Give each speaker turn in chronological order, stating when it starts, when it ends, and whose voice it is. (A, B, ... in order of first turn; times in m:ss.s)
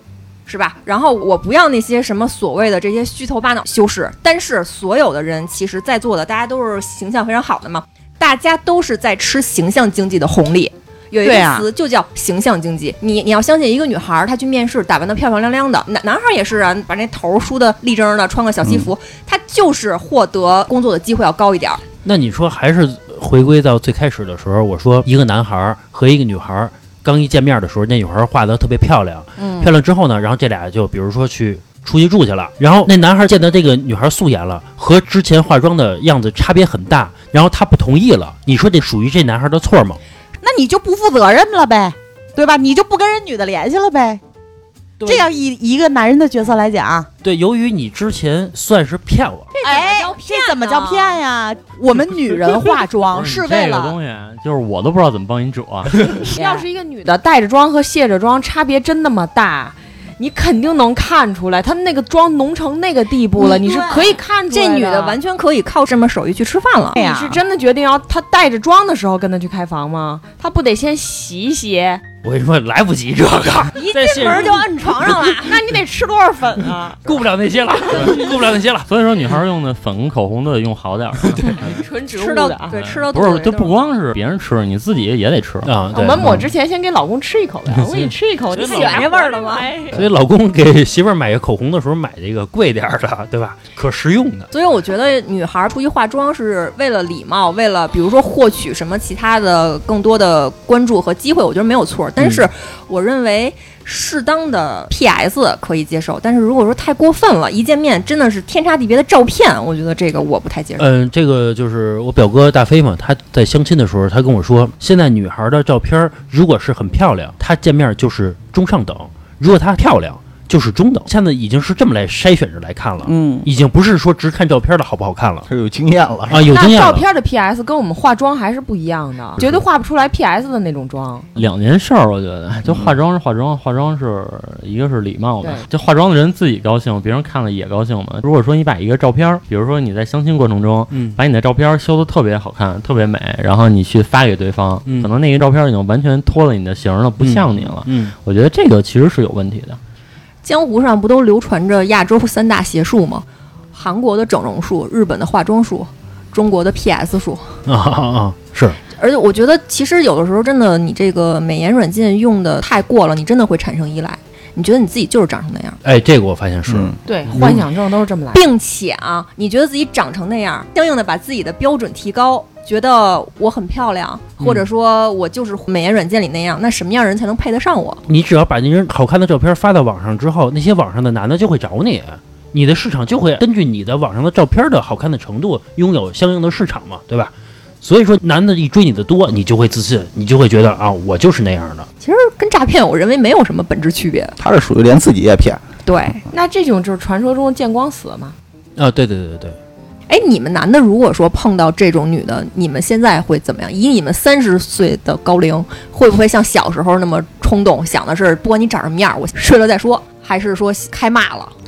0:00.5-0:21.8 A
0:11.2-0:11.7 B
0:22.0-0:40.0 C
0:29.4-0:29.7 B
0:40.4-0:44.2 B
0:45.0-0:45.3 C
0:45.0-0:47.1 B
0:47.2-0:49.5 C
0:49.6-0:51.2 A
0:49.6-0:54.0 B
0:53.1-0:56.2 D
0:56.3-1:05.2 E
0:56.3-0:56.6 B
1:03.4-1:04.2 B
1:04.5-1:07.0 A
1:06.9-1:07.4 B
1:07.0-1:12.0 E
1:12.2-1:14.8 C
1:13.8-1:15.6 A
1:15.1-1:17.0 E
1:17.0-1:18.9 C
1:18.9-1:21.8 D
1:21.5-1:22.8 E
1:22.1-1:23.8 A
1:22.7-1:25.7 D
1:25.6-1:26.5 C
1:25.9-1:30.0 E
1:28.0-1:29.1 C
1:28.5-1:29.7 A
1:29.9-1:34.5 C
1:34.5-1:50.9 A
1:42.2-1:42.5 C
1:50.8-2:05.5 C
2:03.0-2:03.5 B
2:05.5-2:06.5 F
2:06.3-2:07.0 C
2:06.5-2:11.3 E
2:11.4-2:29.8 D
2:12.7-2:13.0 C
2:15.4-2:15.7 E
2:20.9-2:21.2 C
2:27.2-2:28.1 C
2:30.4-2:37.5 A
2:37.7-2:38.8 C
2:38.9-2:45.8 A
2:45.8-2:47.7 C
2:46.7-2:47.0 F
2:47.0-2:48.4 E
2:48.3-2:58.0 A
2:54.4-2:54.7 C
2:58.1-3:11.9 C
3:12.0-3:14.4 A
3:14.4-3:15.6 F
3:15.8-3:16.2 A
3:16.3-3:18.4 E
3:18.8-3:19.6 C
3:20.1-3:31.5 A